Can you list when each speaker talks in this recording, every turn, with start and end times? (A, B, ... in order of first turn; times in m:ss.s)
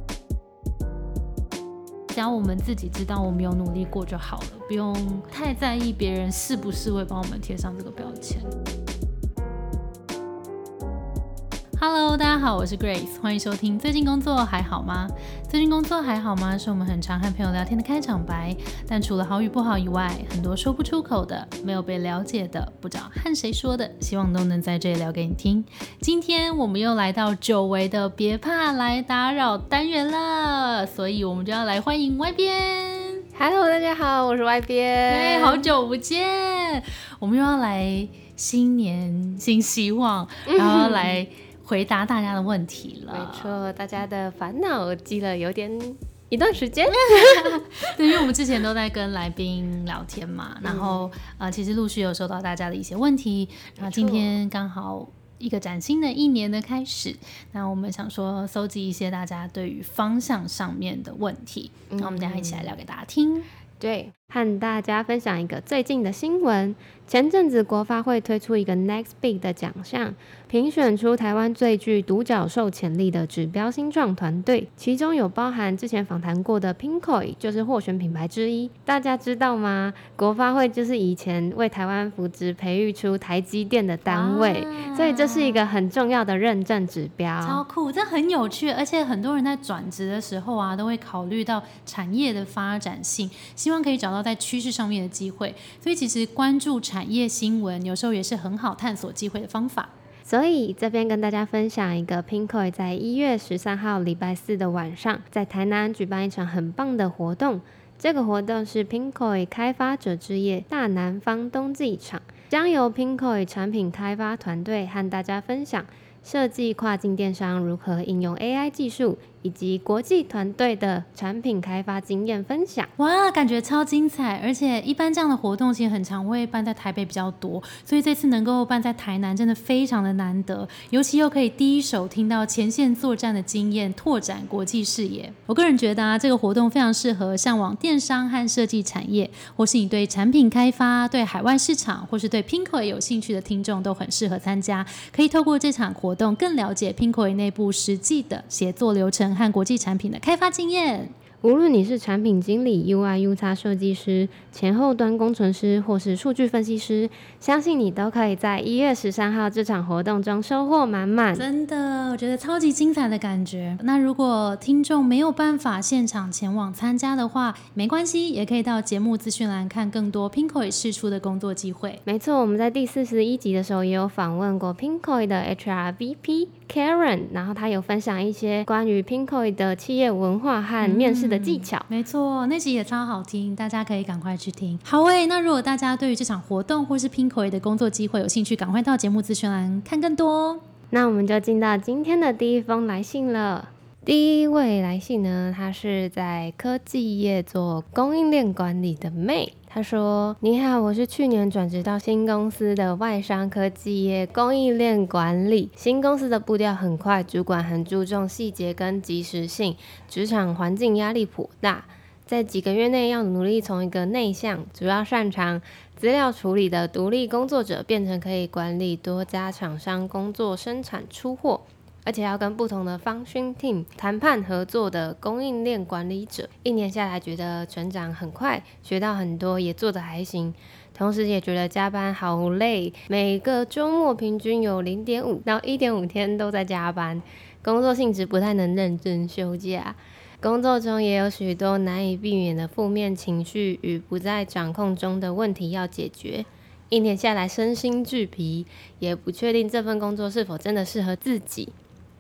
0:02.1-0:08.5 A
0:11.8-0:33.2 A
0:33.4-0:35.7 B
0:35.1-0:43.6 A
0:40.5-0:41.1 B
0:43.1-0:47.6 B
0:46.9-1:03.5 A
0:50.6-0:51.0 B
0:53.8-0:54.4 B
1:01.9-1:02.7 B
1:03.8-1:27.6 B
1:24.1-1:25.6 A
1:27.4-1:39.9 A
1:40.3-2:02.9 B
2:03.0-2:31.1 A
2:31.4-2:41.4 B
2:41.3-2:52.0 A
2:52.1-3:01.9 B
3:00.8-3:10.6 A
3:10.9-4:11.7 B